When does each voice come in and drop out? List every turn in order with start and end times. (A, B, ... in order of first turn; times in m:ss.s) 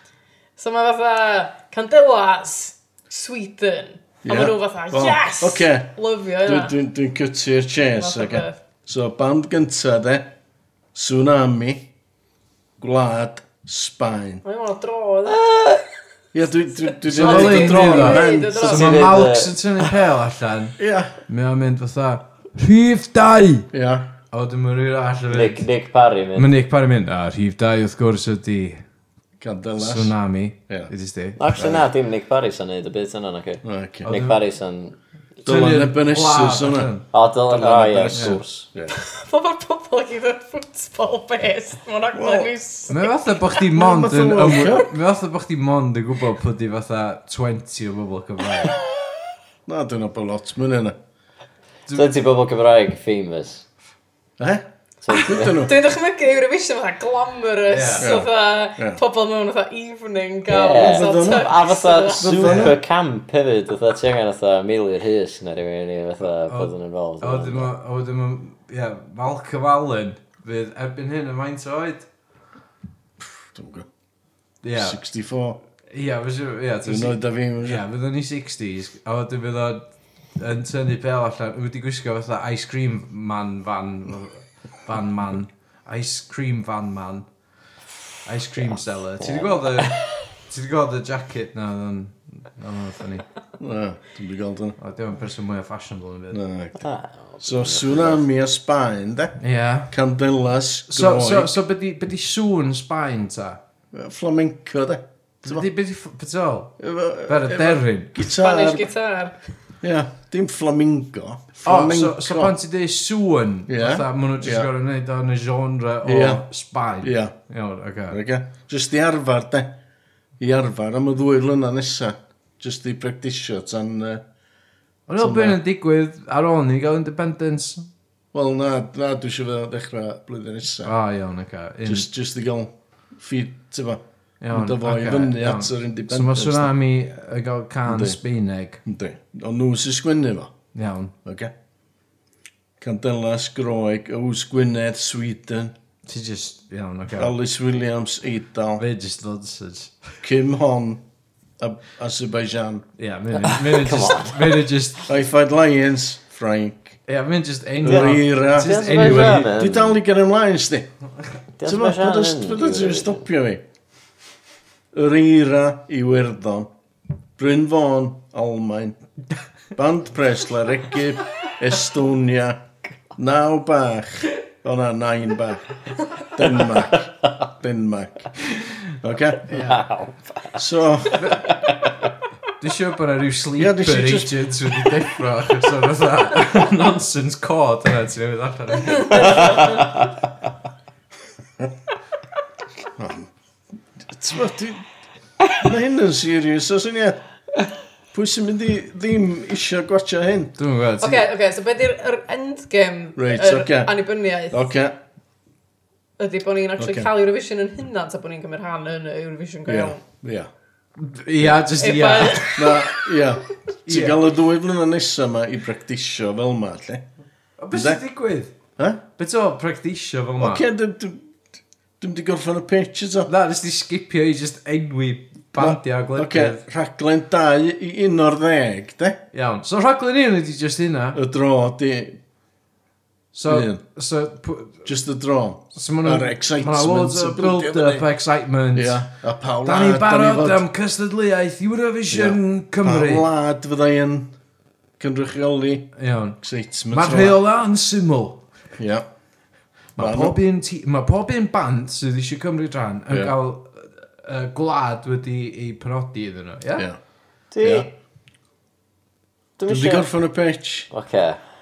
0:00.6-0:06.8 A
0:04.2-0:10.3 B
0:08.0-0:08.6 A
0:10.9-0:11.9 B
0:12.8-0:14.4 B
0:14.4-0:15.4 A
0:15.3-0:15.8 C
0:16.3-0:18.6 B
0:16.9-0:19.1 A
0:17.1-0:20.8 D
0:18.6-0:19.5 C
0:20.8-0:21.2 B
0:21.3-0:23.7 D
0:23.7-0:24.1 B
0:24.3-0:25.6 D
0:25.3-0:26.5 C
0:26.3-0:28.8 D
0:29.4-0:30.1 B
0:29.8-0:31.8 D
0:31.4-0:35.0 C
0:33.6-0:34.1 B
0:34.0-0:34.4 D
0:35.4-0:36.9 B
0:35.4-0:37.1 D
0:37.1-0:38.6 C
0:37.5-0:39.0 B
0:38.1-0:38.4 D
0:38.9-0:43.1 A
0:42.1-0:42.5 B
0:42.9-0:48.7 D
0:43.8-0:44.9 B
0:49.6-0:51.0 B
0:51.9-0:53.6 C
0:54.4-0:55.8 B
0:55.0-0:55.6 C
0:55.6-1:02.7 A
0:57.7-0:58.1 D
0:58.0-0:59.0 B
1:00.5-1:07.7 C
1:00.7-1:01.5 B
1:02.1-1:02.8 B
1:06.5-1:12.1 D
1:13.2-1:13.9 B
1:14.6-1:15.0 D
1:14.8-1:15.6 B
1:15.9-1:27.2 D
1:16.8-1:17.8 B
1:28.2-1:33.2 D
1:29.2-1:30.0 C
1:33.6-1:34.8 B
1:34.8-1:36.4 D
1:36.3-1:36.8 B
1:36.8-1:38.2 C
1:37.4-1:39.4 B
1:39.4-1:39.9 D
1:39.9-1:41.5 B
1:40.9-1:43.6 D
1:43.9-1:45.7 B
1:45.4-1:46.7 D
1:46.8-1:48.9 B
1:47.2-1:48.3 D
1:48.3-1:49.4 A
1:49.8-1:52.5 B
1:51.6-1:58.2 D
1:53.7-1:54.7 B
1:56.0-1:56.4 B
1:57.0-1:57.3 B
1:58.1-1:59.8 B
2:00.4-2:04.2 B
2:05.1-2:07.9 D
2:05.2-2:05.6 B
2:08.3-2:10.9 B
2:10.8-2:12.1 D
2:11.8-2:16.7 B
2:14.4-2:18.8 D
2:17.9-2:18.2 B
2:18.8-2:20.5 B
2:20.7-2:21.1 D
2:21.2-2:21.5 B
2:22.8-2:25.7 B
2:26.0-2:27.3 D
2:27.1-2:28.8 B
2:28.8-2:30.1 D
2:30.2-2:31.0 B
2:31.6-2:32.8 B
2:33.0-2:35.0 D
2:33.3-2:34.7 C
2:35.1-2:37.0 B
2:37.1-2:39.5 D
2:37.8-2:40.9 B
2:37.8-2:40.0 C
2:41.6-2:43.2 C
2:41.6-2:43.6 B
2:44.9-2:46.7 B
2:47.4-2:49.0 B
2:49.7-2:58.3 B
2:59.0-2:59.6 B
2:59.5-2:59.8 D
2:59.5-3:00.6 C
3:00.6-3:01.4 B
3:01.2-3:01.5 D
3:01.4-3:01.9 C
3:02.6-3:09.9 D
3:03.6-3:04.5 B
3:09.3-3:10.1 C
3:12.9-3:13.3 B
3:14.0-3:14.9 B
3:15.5-3:17.2 B
3:18.1-3:20.6 B
3:20.6-3:21.3 D
3:21.0-3:24.7 A
3:23.2-3:25.0 B
3:26.2-3:30.0 A
3:26.8-3:27.1 B
3:29.6-3:30.5 B
3:31.0-3:32.8 D
3:31.8-3:33.0 A
3:32.5-3:37.0 B
3:33.8-3:34.3 D
3:37.6-3:38.5 D
3:37.7-3:38.0 B
3:38.8-3:39.0 B
3:39.2-3:40.6 D
3:40.4-3:41.4 B
3:42.0-3:43.3 B
3:43.3-3:46.6 D
3:45.6-3:49.2 B
3:49.3-3:51.2 D
3:51.1-3:52.2 B
3:53.3-3:54.8 D
3:53.4-3:53.8 B
3:54.8-3:58.1 B
3:55.7-3:59.1 D
3:58.7-4:00.6 B
3:59.6-4:03.3 D
4:02.1-4:04.3 B
4:05.0-4:07.4 B
4:06.0-4:06.4 D
4:06.9-4:08.4 D
4:08.8-4:09.0 B
4:10.0-4:16.9 D
4:10.0-4:10.3 B
4:17.5-4:17.9 C
4:17.6-4:17.9 B
4:19.6-4:20.1 C
4:19.7-4:20.9 B
4:20.9-4:21.4 C